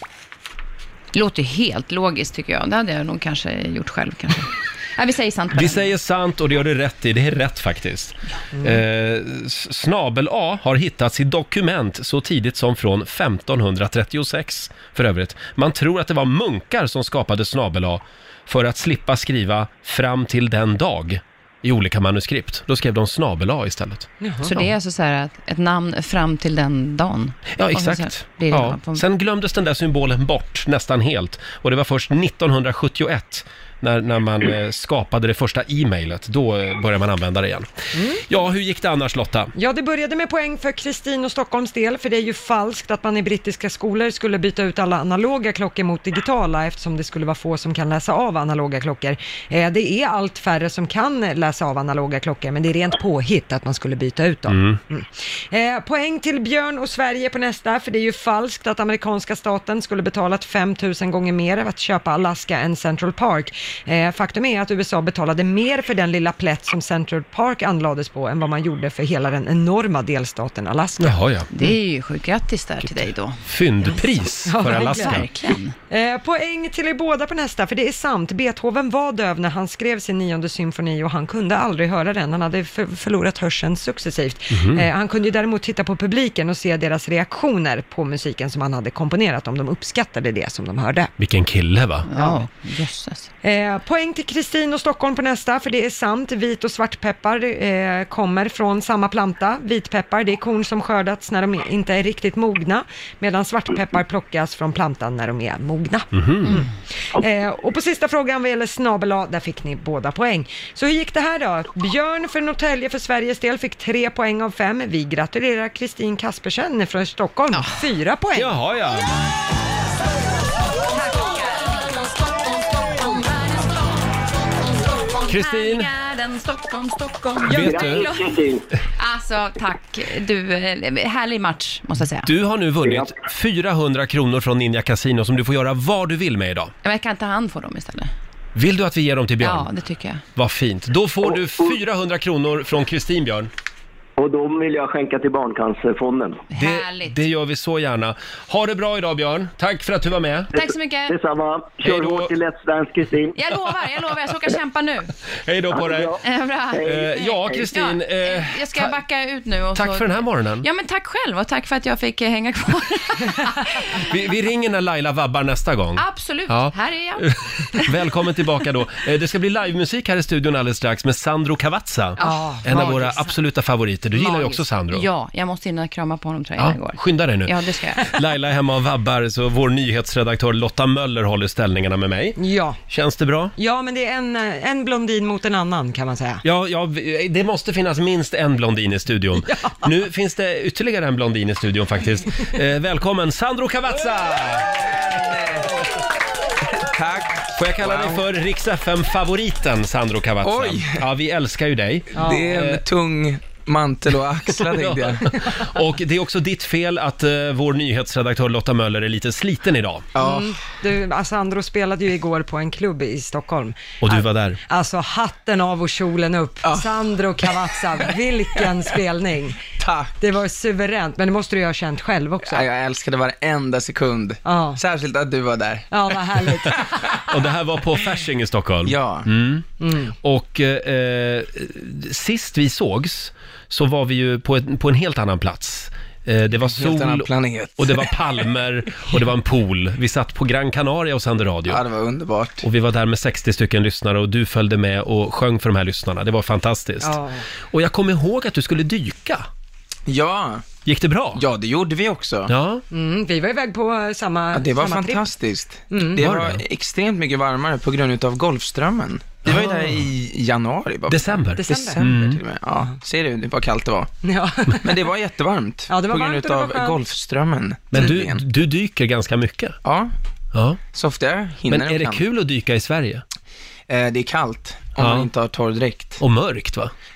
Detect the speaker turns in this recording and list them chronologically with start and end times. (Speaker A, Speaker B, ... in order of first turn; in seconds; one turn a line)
Speaker A: 1.1-5.9
Speaker B: 5.5-24.7
Speaker C: 24.2-24.5
Speaker A: 24.4-29.0
Speaker B: 27.6-37.7
Speaker C: 37.9-38.2
Speaker B: 38.2-39.5
Speaker C: 39.5-71.2
Speaker B: 54.5-54.8
Speaker B: 71.0-71.5
Speaker A: 71.5-73.4
Speaker B: 72.8-75.3
Speaker C: 74.5-75.2
Speaker A: 74.6-75.7
Speaker C: 75.9-91.1
Speaker B: 84.5-84.9
Speaker B: 91.2-92.1
Speaker A: 92.1-93.3
Speaker C: 93.4-118.5
Speaker B: 106.1-106.6
Speaker B: 118.3-119.0
Speaker A: 120.9-124.0
Speaker A: 125.0-128.3
Speaker B: 125.3-125.9
Speaker B: 127.5-128.1
Speaker D: 127.5-128.7
Speaker A: 129.0-132.3
Speaker B: 132.2-136.7
Speaker D: 132.8-133.2
Speaker A: 136.8-138.1
Speaker B: 138.6-139.7
Speaker A: 139.4-140.2
Speaker B: 140.3-143.5
Speaker D: 144.2-146.4
Speaker A: 146.5-147.2
Speaker B: 146.6-150.5
Speaker A: 150.5-151.2
Speaker D: 150.6-153.3
Speaker B: 151.8-152.3
Speaker A: 153.3-155.1
Speaker B: 155.4-156.2
Speaker D: 155.7-156.2
Speaker A: 156.2-164.1
Speaker D: 156.7-157.6
Speaker B: 156.8-158.9
Speaker B: 159.7-160.7
Speaker B: 164.0-175.1
Speaker A: 166.0-167.9
Speaker A: 172.2-173.2
Speaker C: 172.2-173.2
Speaker A: 174.1-178.1
Speaker B: 176.6-182.4
Speaker C: 182.4-182.8
Speaker B: 182.9-183.5
Speaker C: 183.6-186.4
Speaker B: 186.4-194.8
Speaker C: 189.5-189.8
Speaker E: 194.5-195.8
Speaker E: 196.9-198.2
Speaker B: 197.6-202.8
Speaker E: 200.4-201.1
Speaker E: 202.1-205.4
Speaker C: 202.2-202.5
Speaker B: 204.6-210.1
Speaker E: 210.1-210.6
Speaker C: 210.2-219.6
Speaker B: 214.0-214.6
Speaker E: 216.6-218.9
Speaker E: 219.8-220.3
Speaker C: 220.2-222.6
Speaker E: 222.4-227.3
Speaker C: 224.4-224.8
Speaker C: 225.9-227.1
Speaker B: 227.2-229.6
Speaker E: 228.8-229.3
Speaker C: 229.8-230.1
Speaker B: 230.2-241.8
Speaker E: 236.6-238.4
Speaker E: 241.7-242.7
Speaker B: 242.6-247.2
Speaker C: 247.0-247.4
Speaker B: 247.7-249.4
Speaker E: 250.1-250.6
Speaker B: 250.8-251.4
Speaker E: 251.3-252.5
Speaker B: 252.5-252.8
Speaker C: 252.9-255.2
Speaker E: 254.5-264.1
Speaker C: 255.9-256.2
Speaker B: 256.1-256.6
Speaker B: 259.4-260.0
Speaker B: 261.1-262.4
Speaker C: 261.6-262.0
Speaker C: 264.2-265.0
Speaker E: 264.7-268.4
Speaker C: 265.9-267.0
Speaker B: 267.9-269.8
Speaker E: 269.8-270.1
Speaker B: 270.5-270.8
Speaker E: 270.9-272.2
Speaker B: 271.7-273.2
Speaker E: 273.9-276.2
Speaker B: 275.0-275.3
Speaker B: 276.2-276.9